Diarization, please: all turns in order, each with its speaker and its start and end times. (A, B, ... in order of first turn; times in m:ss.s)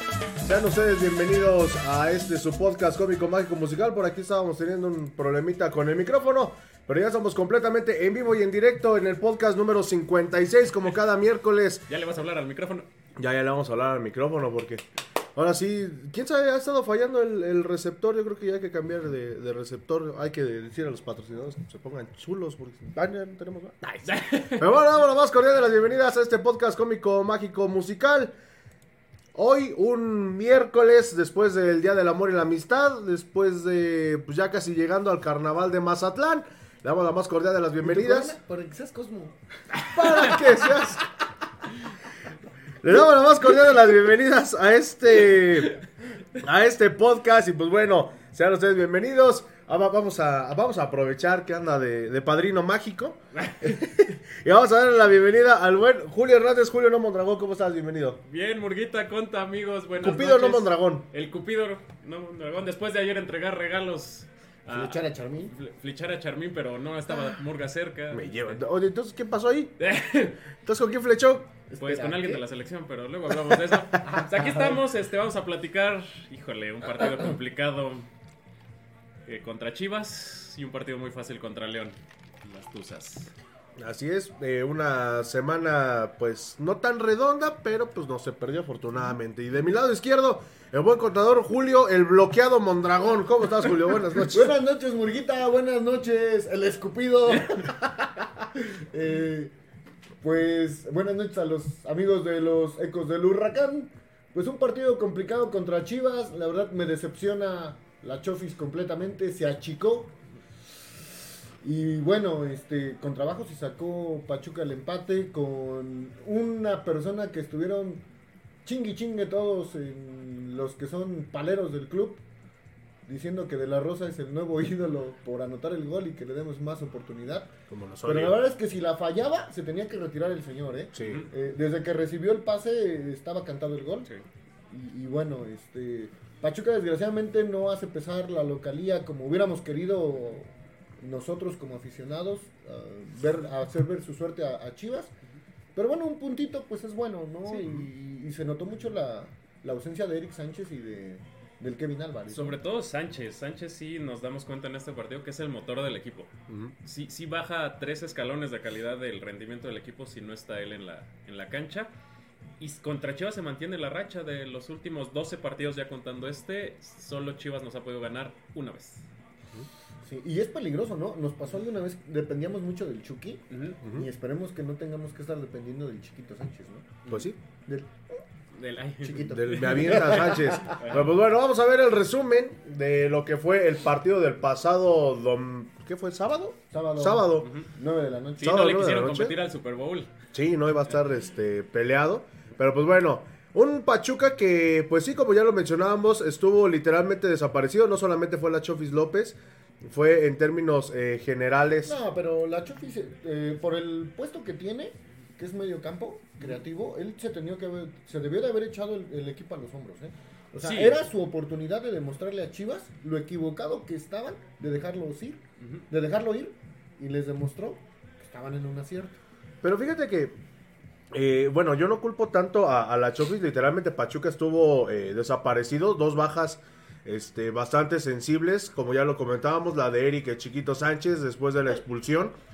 0:00.4-0:11.9 A
0:11.9-0:12.9 B
0:13.2-0:14.8 A
0:15.3-0:28.3 A
0:23.9-0:24.6 B
0:29.3-0:38.4 A
0:37.8-0:39.4 C
0:39.9-0:41.0 A
0:40.0-0:40.6 C
0:42.8-0:45.8 A
0:46.4-0:58.2 A
0:53.4-0:53.8 B
0:58.2-1:08.6 B
1:00.0-1:01.1 A
1:04.7-1:05.5 C
1:08.1-1:09.7 A
1:09.8-1:10.4 B
1:10.6-1:11.5 A
1:11.7-1:12.4 C
1:11.8-1:18.1 B
1:14.1-1:14.8 C
1:19.2-1:23.3 B
1:23.8-1:34.5 A
1:34.3-1:39.5 C
1:37.3-1:37.6 B
1:40.2-1:50.2 C
1:51.6-1:58.0 C
1:58.6-2:02.2 C
2:03.0-2:07.5 C
2:07.7-2:08.4 A
2:08.0-2:14.1 C
2:10.9-2:11.3 A
2:11.0-2:11.3 B
2:14.7-2:25.1 C
2:25.8-2:32.6 C
2:27.4-2:27.7 B
2:32.3-2:36.3 B
2:36.5-2:36.7 A
2:36.8-2:41.9 B
2:42.6-2:49.1 B
2:50.0-2:53.4 C
2:53.5-2:53.8 B
2:53.8-2:54.1 A
2:54.0-2:57.1 C
2:57.1-2:57.4 A
2:57.6-2:58.1 C
2:58.5-3:01.0 B
2:59.0-3:00.9 C
2:59.3-3:07.5 A
3:06.7-3:08.6 C
3:07.4-3:07.7 B
3:08.4-3:10.1 B
3:08.4-3:09.4 A
3:10.3-3:22.0 A
3:21.8-3:39.2 C
3:30.6-3:31.0 B
3:39.6-3:40.4 A
3:41.1-3:52.3 A